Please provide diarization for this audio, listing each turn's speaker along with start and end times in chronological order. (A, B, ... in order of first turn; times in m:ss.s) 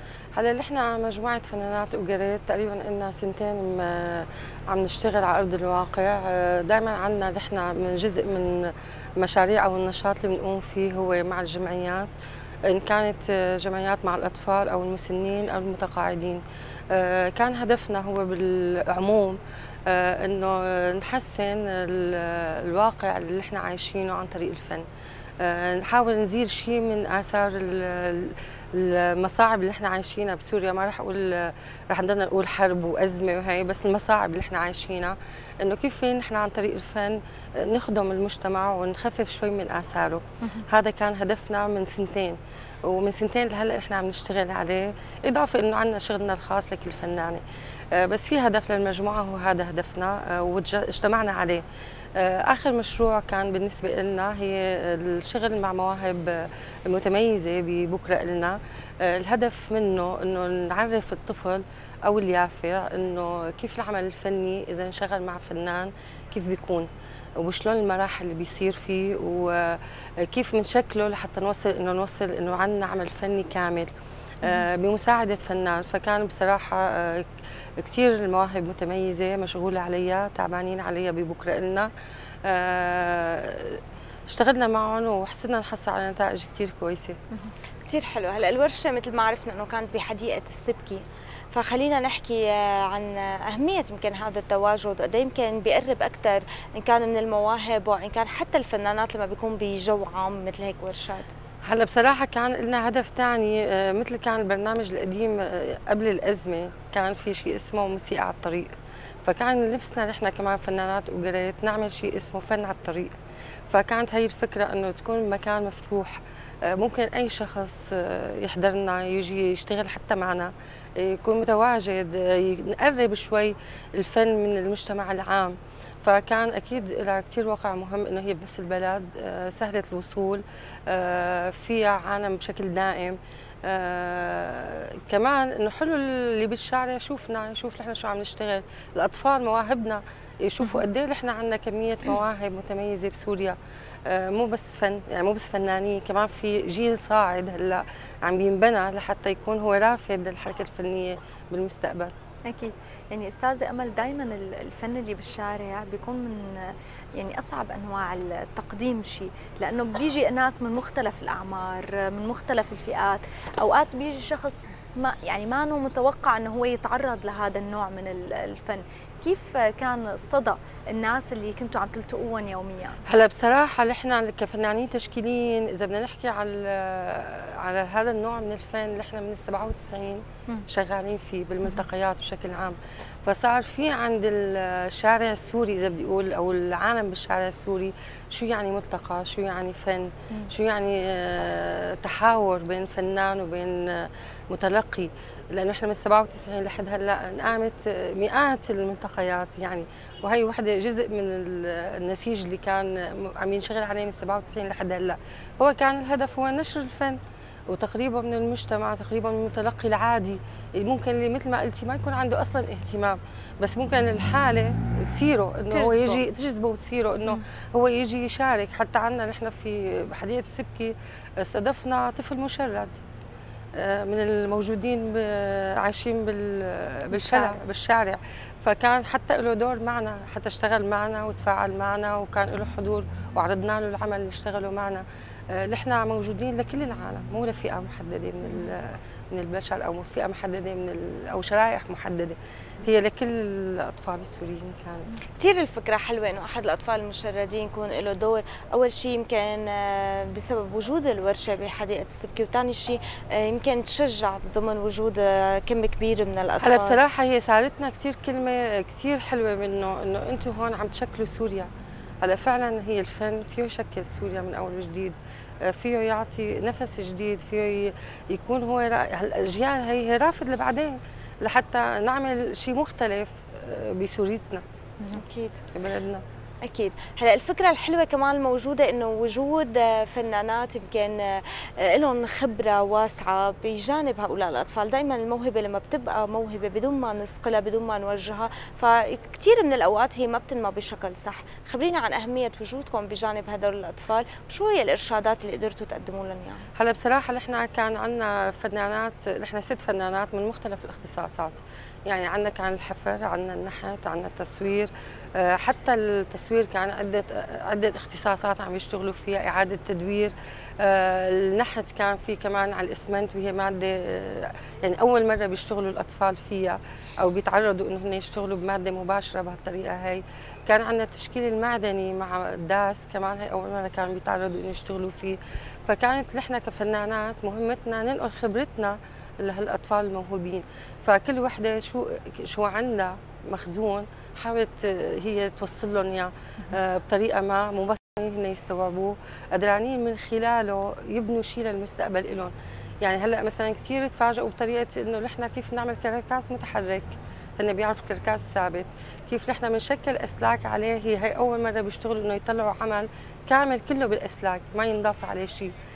0:00.3-0:12.1 A
0:12.6-0:24.8 A
0:25.4-0:47.4 A
0:47.9-0:51.6 A
0:52.1-1:13.9 A
1:14.4-1:17.3 A
1:17.8-1:21.9 A
1:22.4-1:27.2 A
1:27.9-1:41.3 B
1:41.6-1:48.7 A
1:49.2-1:53.1 A
1:53.7-2:32.1 A
2:32.5-2:53.0 C
2:53.0-3:27.2 A
3:27.7-3:43.0 A
3:35.7-3:36.2 C
3:43.7-4:05.1 A
3:47.1-3:47.6 C
4:05.4-4:17.0 B
4:16.6-4:21.7 A
4:22.2-4:34.6 A
4:35.1-4:35.6 B
4:35.7-4:36.2 A
4:36.6-4:56.6 B
4:56.8-5:55.7 A